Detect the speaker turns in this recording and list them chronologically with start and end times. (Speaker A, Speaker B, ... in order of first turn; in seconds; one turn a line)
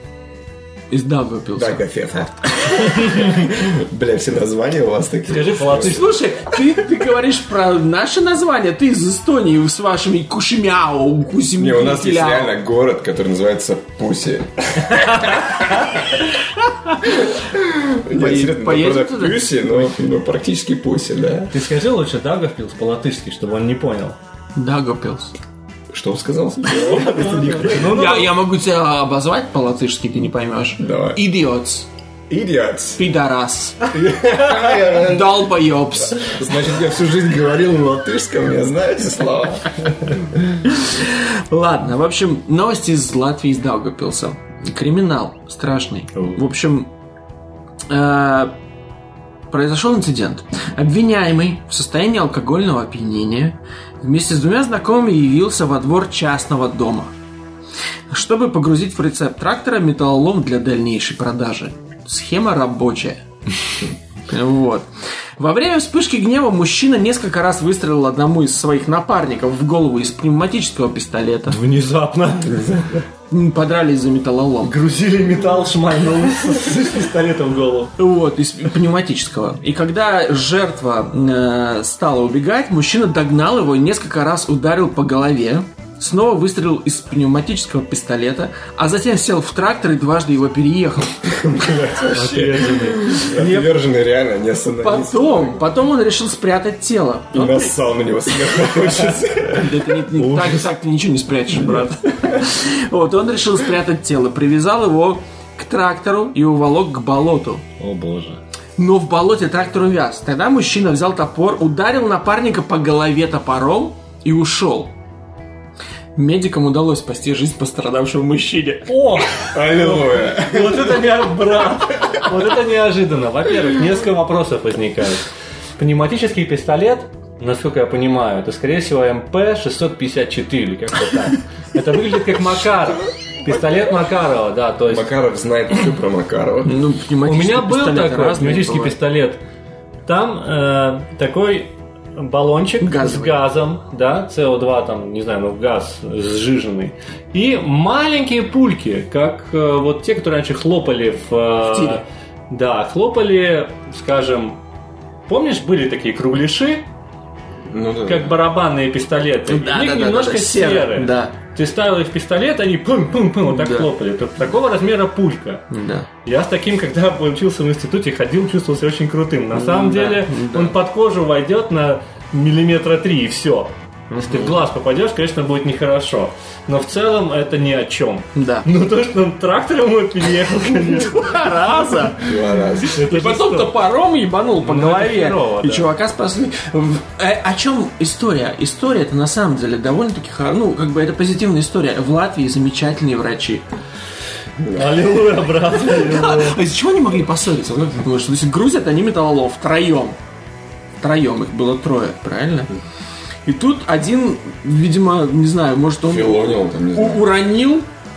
Speaker A: 0.9-1.8
Speaker B: 1.6-6.1
Speaker C: 5.3-6.2
Speaker A: 5.7-12.5
Speaker B: 11.6-15.9
Speaker B: 17.1-21.5
Speaker A: 18.1-19.5
Speaker C: 21.5-24.2
Speaker A: 24.5-25.3
Speaker B: 25.9-28.0
Speaker C: 26.8-28.3
Speaker A: 27.8-31.9
Speaker B: 30.8-31.2
Speaker B: 32.3-33.0
Speaker A: 33.0-33.9
Speaker B: 33.9-35.5
Speaker A: 34.5-36.3
Speaker B: 36.2-40.4
Speaker A: 40.6-46.9
Speaker A: 47.9-48.5
Speaker A: 49.5-57.1
Speaker A: 58.1-71.6
Speaker C: 71.5-72.6
Speaker B: 72.4-73.0
Speaker A: 73.3-74.7
Speaker C: 74.6-77.9
Speaker A: 78.0-91.3
Speaker B: 91.2-95.6
Speaker C: 92.1-93.7
Speaker A: 94.8-97.8
Speaker B: 97.3-99.8
Speaker A: 98.6-107.6
Speaker C: 100.2-100.7
Speaker B: 101.6-102.4
Speaker C: 107.8-108.4
Speaker A: 108.8-114.9
Speaker A: 116.2-119.2
Speaker C: 118.8-135.1
Speaker B: 119.5-121.2
Speaker B: 134.9-136.8
Speaker A: 136.6-139.0
Speaker C: 137.2-139.4
Speaker C: 140.1-154.6
Speaker A: 142.8-143.4
Speaker A: 151.7-152.0
Speaker C: 155.3-156.9
Speaker B: 157.7-158.4
Speaker C: 158.0-165.6
Speaker A: 159.5-161.3
Speaker A: 163.5-163.9
Speaker A: 165.7-166.1
Speaker C: 166.2-181.3
Speaker A: 169.5-170.8
Speaker A: 174.1-174.6
Speaker A: 178.3-178.7
Speaker A: 180.7-193.6
Speaker B: 182.2-183.0
Speaker C: 182.9-183.7
Speaker C: 184.6-185.9
Speaker B: 194.6-195.0
Speaker C: 194.7-196.6
Speaker A: 195.8-200.2
Speaker A: 201.0-202.7
Speaker A: 203.4-207.9
Speaker B: 206.0-207.3